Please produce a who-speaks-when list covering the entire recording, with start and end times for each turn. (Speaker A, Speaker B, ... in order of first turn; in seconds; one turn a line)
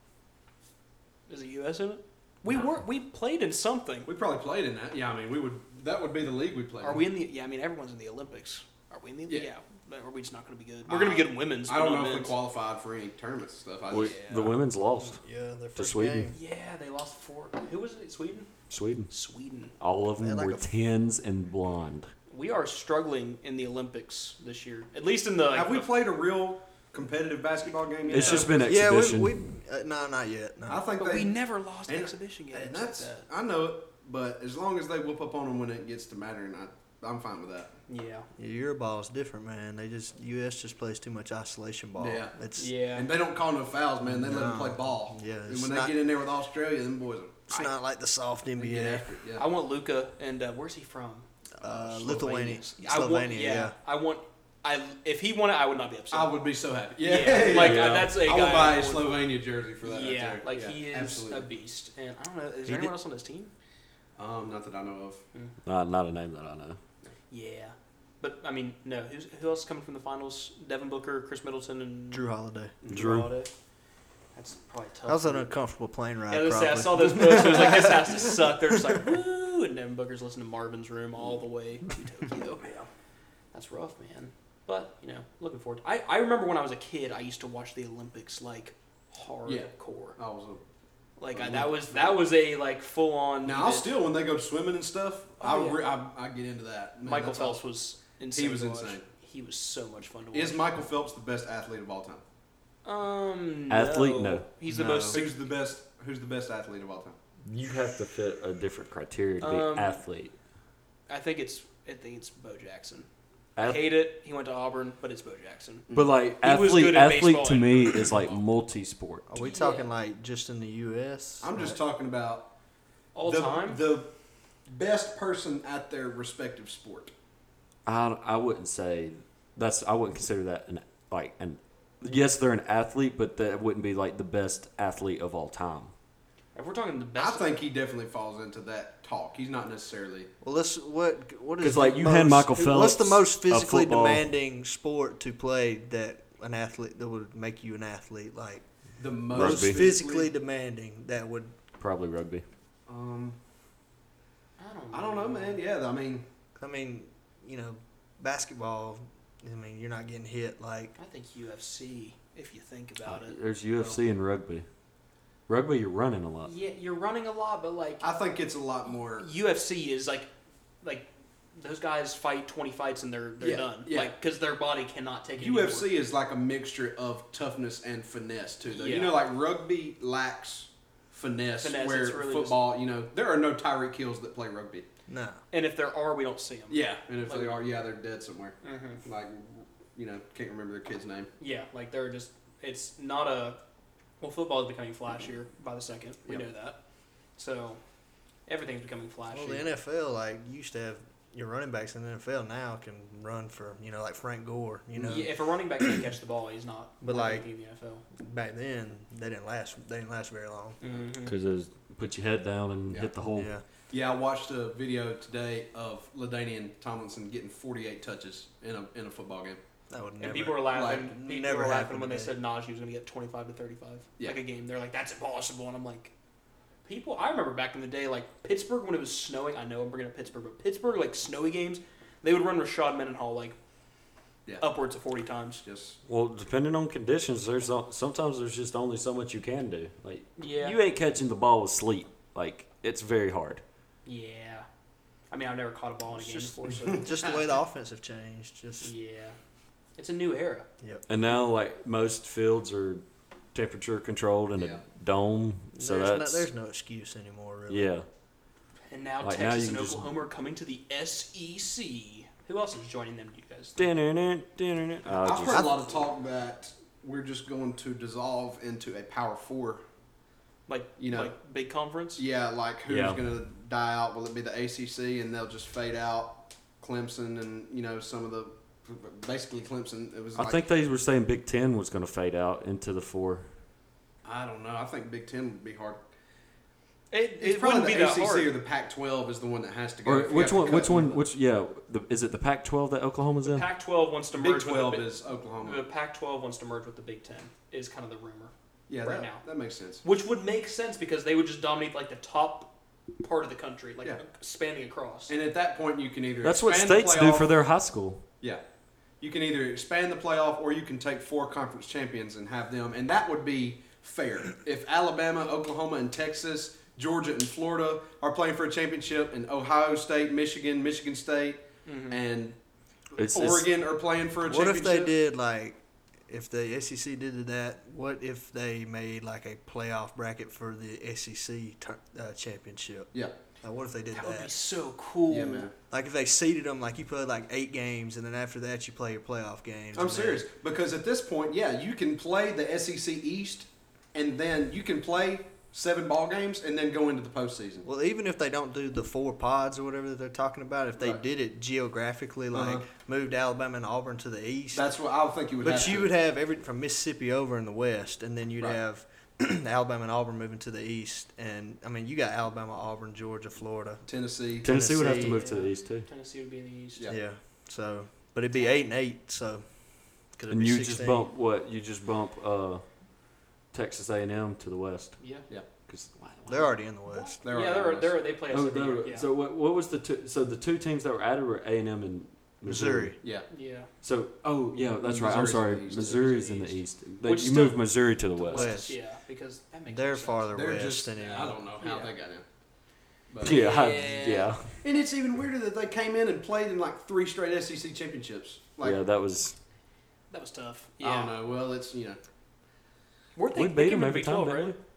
Speaker A: 1.3-4.1
Speaker B: 4.1-7.1
Speaker A: 6.8-12.4
Speaker B: 10.9-14.3
Speaker C: 13.9-15.2
Speaker A: 13.9-14.5
Speaker D: 15.1-16.4
Speaker C: 15.8-16.3
Speaker A: 16.3-18.5
Speaker C: 18.7-19.1
Speaker A: 19.1-19.7
Speaker C: 19.8-22.1
Speaker D: 20.2-20.6
Speaker A: 22.3-25.9
Speaker B: 25.5-28.6
Speaker A: 28.1-28.6
Speaker C: 28.1-29.4
Speaker D: 28.6-30.9
Speaker B: 30.7-31.3
Speaker A: 31.0-33.3
Speaker B: 31.9-37.7
Speaker A: 37.9-38.3
Speaker D: 38.4-42.7
Speaker B: 42.0-42.4
Speaker A: 42.6-43.1
Speaker B: 42.9-47.6
Speaker D: 44.0-46.0
Speaker D: 47.5-49.0
Speaker B: 48.6-49.5
Speaker A: 49.4-56.4
Speaker D: 51.6-53.8
Speaker B: 56.1-61.5
Speaker A: 57.0-59.3
Speaker C: 57.4-58.2
Speaker A: 59.8-63.5
Speaker D: 62.6-62.9
Speaker B: 64.2-65.2
Speaker C: 65.6-66.8
Speaker A: 67.3-72.3
Speaker D: 72.1-72.8
Speaker A: 72.8-73.5
Speaker C: 72.9-73.3
Speaker A: 74.3-75.5
Speaker D: 75.1-77.7
Speaker A: 76.3-82.7
Speaker A: 83.5-90.2
Speaker B: 89.5-90.6
Speaker A: 91.2-93.9
Speaker B: 91.3-92.3
Speaker B: 93.4-97.6
Speaker A: 95.4-95.9
Speaker A: 97.0-100.6
Speaker B: 98.3-99.1
Speaker B: 100.3-102.2
Speaker A: 102.8-105.3
Speaker C: 103.7-104.5
Speaker B: 104.7-107.2
Speaker C: 107.5-110.3
Speaker A: 109.4-110.0
Speaker A: 111.1-113.1
Speaker C: 113.6-113.9
Speaker A: 113.6-115.9
Speaker B: 115.9-116.2
Speaker C: 115.9-119.2
Speaker A: 116.4-118.1
Speaker D: 119.3-121.8
Speaker A: 119.3-119.9
Speaker B: 121.4-122.5
Speaker A: 123.1-123.8
Speaker B: 123.2-124.1
Speaker B: 124.7-127.1
Speaker C: 127.9-135.9
Speaker A: 136.5-137.6
Speaker B: 137.2-140.3
Speaker D: 140.4-148.6
Speaker C: 141.6-144.3
Speaker B: 149.0-150.3
Speaker D: 149.3-151.5
Speaker C: 149.3-149.9
Speaker C: 151.8-152.4
Speaker B: 152.9-153.4
Speaker A: 154.6-155.6
Speaker B: 154.9-156.2
Speaker D: 156.6-161.0
Speaker A: 161.0-164.0
Speaker C: 163.1-164.7
Speaker C: 165.5-166.5
Speaker A: 166.4-168.0
Speaker B: 168.0-169.3
Speaker A: 169.2-170.3
Speaker A: 170.8-175.9
Speaker B: 173.4-174.1
Speaker B: 175.4-184.9
Speaker A: 178.7-179.2
Speaker A: 181.6-182.7
Speaker D: 185.1-185.4
Speaker A: 185.5-187.6
Speaker B: 186.7-191.3
Speaker A: 188.6-189.0
Speaker A: 191.4-193.6
Speaker A: 194.2-196.8
Speaker A: 197.4-197.8
Speaker A: 198.5-199.7
Speaker D: 199.3-205.3
Speaker A: 205.0-208.0
Speaker D: 207.0-207.5
Speaker D: 208.2-210.8
Speaker A: 210.8-211.3
Speaker C: 211.2-213.5
Speaker D: 213.3-213.6
Speaker B: 213.9-219.6
Speaker D: 219.9-222.4
Speaker A: 220.2-226.1
Speaker B: 220.7-221.1
Speaker A: 226.8-233.6
Speaker A: 234.6-235.6
Speaker B: 235.6-236.0
Speaker C: 236.1-243.6
Speaker A: 240.4-240.8
Speaker A: 244.0-244.7
Speaker A: 245.3-247.5
Speaker D: 246.4-248.9
Speaker A: 248.8-249.4
Speaker A: 250.0-250.7
Speaker C: 251.1-253.0
Speaker C: 253.5-256.5
Speaker B: 254.5-254.8
Speaker D: 255.8-257.9
Speaker C: 257.7-258.1
Speaker A: 258.9-263.9
Speaker C: 259.2-260.1
Speaker C: 263.8-265.7
Speaker B: 265.2-269.8
Speaker D: 265.5-265.8
Speaker A: 270.7-272.2
Speaker B: 271.0-271.3
Speaker B: 272.2-280.6
Speaker C: 272.9-273.2
Speaker C: 280.4-283.5
Speaker B: 284.2-286.0
Speaker A: 287.1-288.5
Speaker B: 287.4-291.2
Speaker C: 290.0-293.6
Speaker A: 293.4-298.5
Speaker B: 294.3-295.8
Speaker B: 298.9-300.0
Speaker A: 299.0-299.4
Speaker A: 300.0-305.4
Speaker B: 305.3-307.5
Speaker C: 306.4-308.2
Speaker B: 309.2-322.6
Speaker A: 321.9-322.2
Speaker C: 323.1-323.8
Speaker B: 323.2-325.1
Speaker D: 324.4-333.1
Speaker D: 333.6-334.5
Speaker A: 334.1-335.7
Speaker B: 335.3-335.7
Speaker D: 335.9-340.4
Speaker B: 339.9-347.9
Speaker D: 347.9-354.9
Speaker B: 352.5-352.8
Speaker B: 354.7-356.1
Speaker D: 355.6-364.0
Speaker B: 364.1-364.7
Speaker C: 364.6-366.1
Speaker D: 364.6-365.5
Speaker A: 365.0-367.1
Speaker D: 367.1-369.6
Speaker D: 370.3-371.3
Speaker C: 370.5-372.8
Speaker C: 373.7-375.2
Speaker A: 375.2-375.5
Speaker C: 375.9-376.7
Speaker D: 376.5-377.4
Speaker A: 377.1-379.3
Speaker B: 377.4-378.2
Speaker C: 378.5-383.1
Speaker D: 382.6-383.1
Speaker B: 383.2-383.5
Speaker A: 383.5-383.9
Speaker C: 384.0-388.8
Speaker B: 385.0-386.7
Speaker A: 386.1-386.7
Speaker A: 387.2-390.5
Speaker D: 388.5-389.0
Speaker D: 389.9-391.6
Speaker B: 390.5-392.4
Speaker A: 391.8-392.1
Speaker B: 393.3-393.7
Speaker C: 393.4-394.8
Speaker A: 393.4-394.5
Speaker B: 394.8-399.0
Speaker C: 398.8-399.5
Speaker A: 400.3-401.4
Speaker B: 401.0-402.2
Speaker A: 403.4-404.8
Speaker C: 403.5-404.8